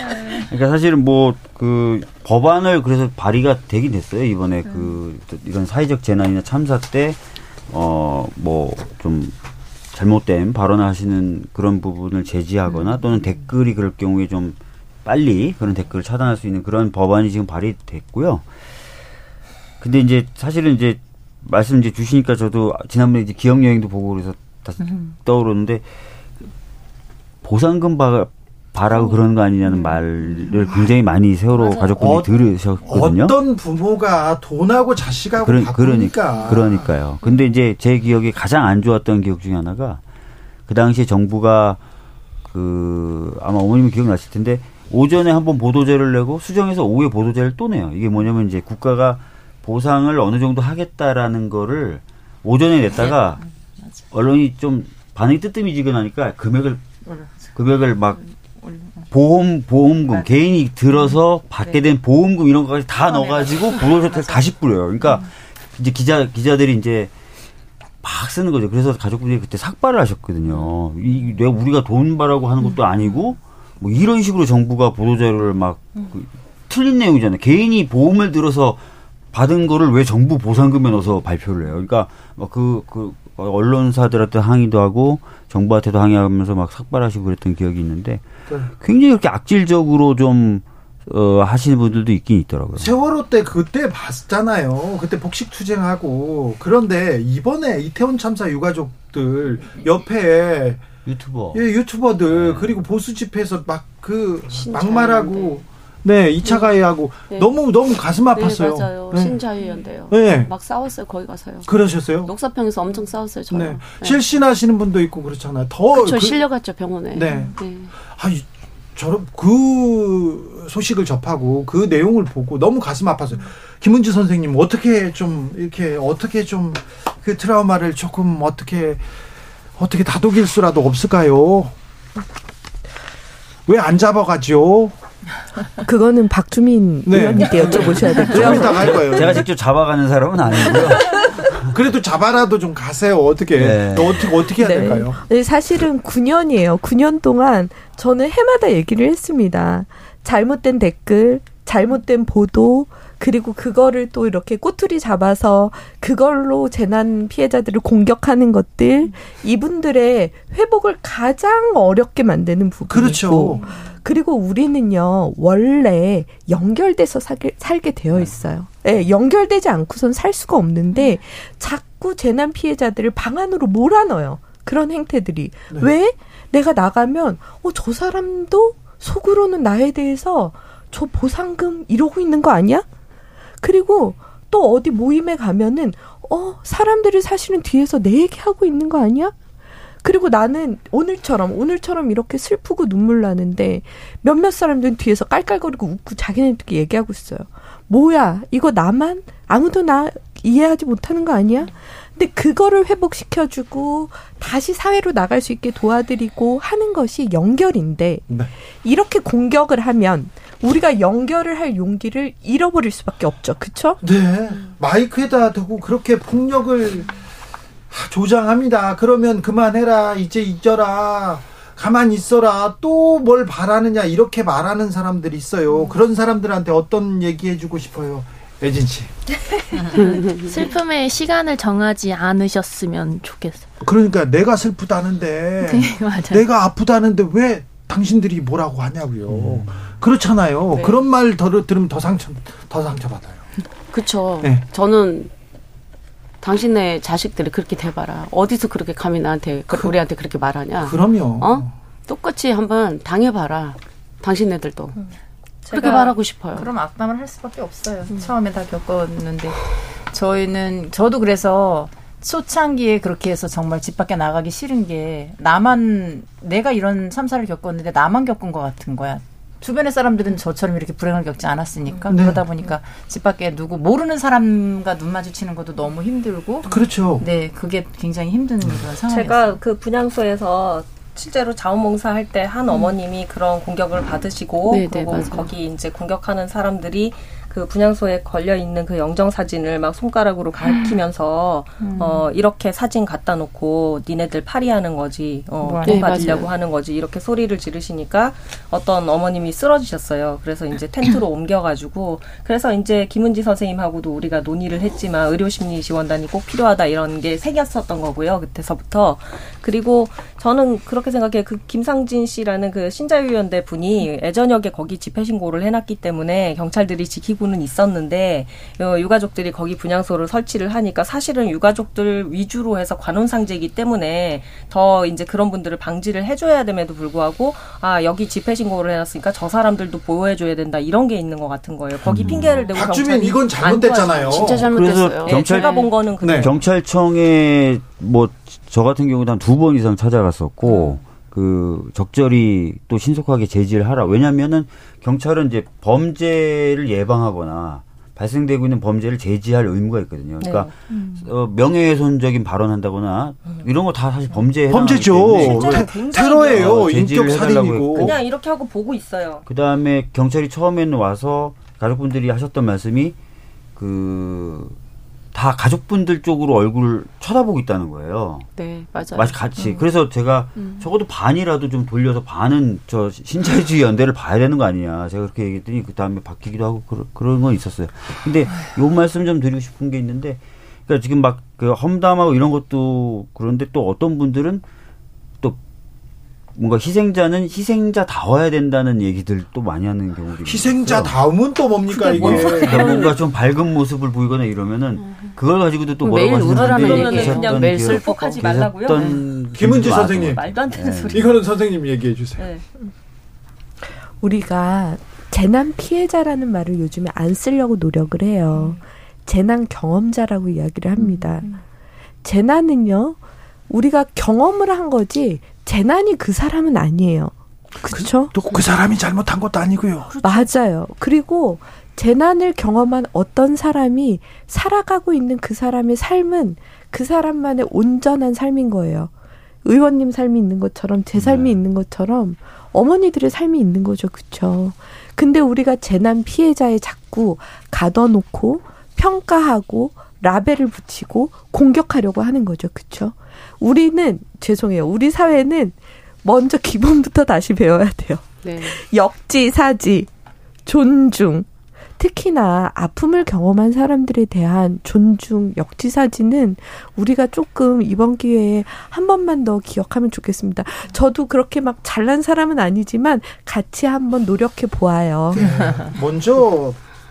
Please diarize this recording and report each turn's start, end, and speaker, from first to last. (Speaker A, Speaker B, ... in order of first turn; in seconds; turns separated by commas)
Speaker A: 0.2-9.3, Speaker A: 9.9-18.4, Speaker A: 19.8-25.8, Speaker A: 27.4-33.4, Speaker B: 30.6-30.9, Speaker C: 31.6-31.9, Speaker B: 31.8-32.3, Speaker B: 32.8-36.9, Speaker A: 35.4-40.0, Speaker D: 36.3-36.6, Speaker A: 40.7-41.8, Speaker A: 42.5-53.4, Speaker A: 54.1-56.9, Speaker A: 57.5-58.2, Speaker A: 59.1-67.1, Speaker A: 68.0-78.8, Speaker A: 79.3-92.9, Speaker B: 92.8-100.8, Speaker A: 101.0-101.6, Speaker B: 101.5-109.4, Speaker A: 102.3-102.8, Speaker E: 104.5-105.6, Speaker E: 106.4-106.7, Speaker E: 108.3-111.7, Speaker B: 110.1-110.5, Speaker B: 111.6-112.3, Speaker E: 112.2-114.2, Speaker B: 113.5-116.5, Speaker E: 115.9-117.9, Speaker B: 117.1-129.0, Speaker B: 129.8-131.7, Speaker B: 133.7-134.9, Speaker F: 135.8-139.0, Speaker B: 137.1-139.4, Speaker A: 137.7-141.8, Speaker B: 141.7-145.2, Speaker A: 143.6-144.4, Speaker F: 144.5-182.9, Speaker B: 162.9-163.7, Speaker F: 183.6-189.3, Speaker F: 190.0-208.2, Speaker F: 208.8-214.0, Speaker B: 214.0-217.1, Speaker B: 217.9-229.1, Speaker E: 230.0-230.5, Speaker D: 230.4-233.7, Speaker B: 233.8-243.4, Speaker D: 235.6-236.4, Speaker A: 239.3-239.7, Speaker E: 240.7-241.0, Speaker E: 243.9-245.3, Speaker B: 244.4-244.7, Speaker E: 246.4-254.9, Speaker B: 249.7-250.0, Speaker B: 250.8-251.7, Speaker C: 255.6-256.1, Speaker E: 255.7-256.7, Speaker G: 256.5-259.6, Speaker G: 260.1-279.6, Speaker B: 272.1-272.4, Speaker B: 276.7-277.2, Speaker C: 279.1-336.6, Speaker E: 284.7-285.5, Speaker G: 291.8-292.3, Speaker G: 295.6-296.4, Speaker E: 295.8-296.5, Speaker B: 332.1-334.7, Speaker A: 332.1-332.7, Speaker E: 333.9-335.9, Speaker A: 334.7-358.2, Speaker B: 336.2-336.5, Speaker C: 340.6-341.0, Speaker C: 350.4-350.7, Speaker B: 354.7-358.1, Speaker C: 355.3-357.4, Speaker C: 357.9-359.4, Speaker A: 359.4-363.1, Speaker A: 363.8-364.7, Speaker A: 365.3-368.5, Speaker E: 368.5-369.4, Speaker A: 369.1-384.6, Speaker A: 386.5-391.2, Speaker B: 390.4-393.1, Speaker A: 392.0-401.3, Speaker C: 392.1-393.1, Speaker E: 392.2-393.1, Speaker E: 396.0-398.4, Speaker C: 396.2-399.2, Speaker B: 399.5-400.4, Speaker C: 400.1-401.4, Speaker B: 401.1-402.4, Speaker C: 402.4-402.6, Speaker F: 404.2-411.4, Speaker C: 408.5-408.8, Speaker F: 412.2-413.2, Speaker F: 413.7-418.3, Speaker B: 417.8-420.1, Speaker F: 420.2-429.1, Speaker F: 429.6-450.1, Speaker A: 431.1-431.6, Speaker E: 448.4-448.8, Speaker F: 450.6-451.5, Speaker F: 452.0-465.5, Speaker B: 465.3-466.8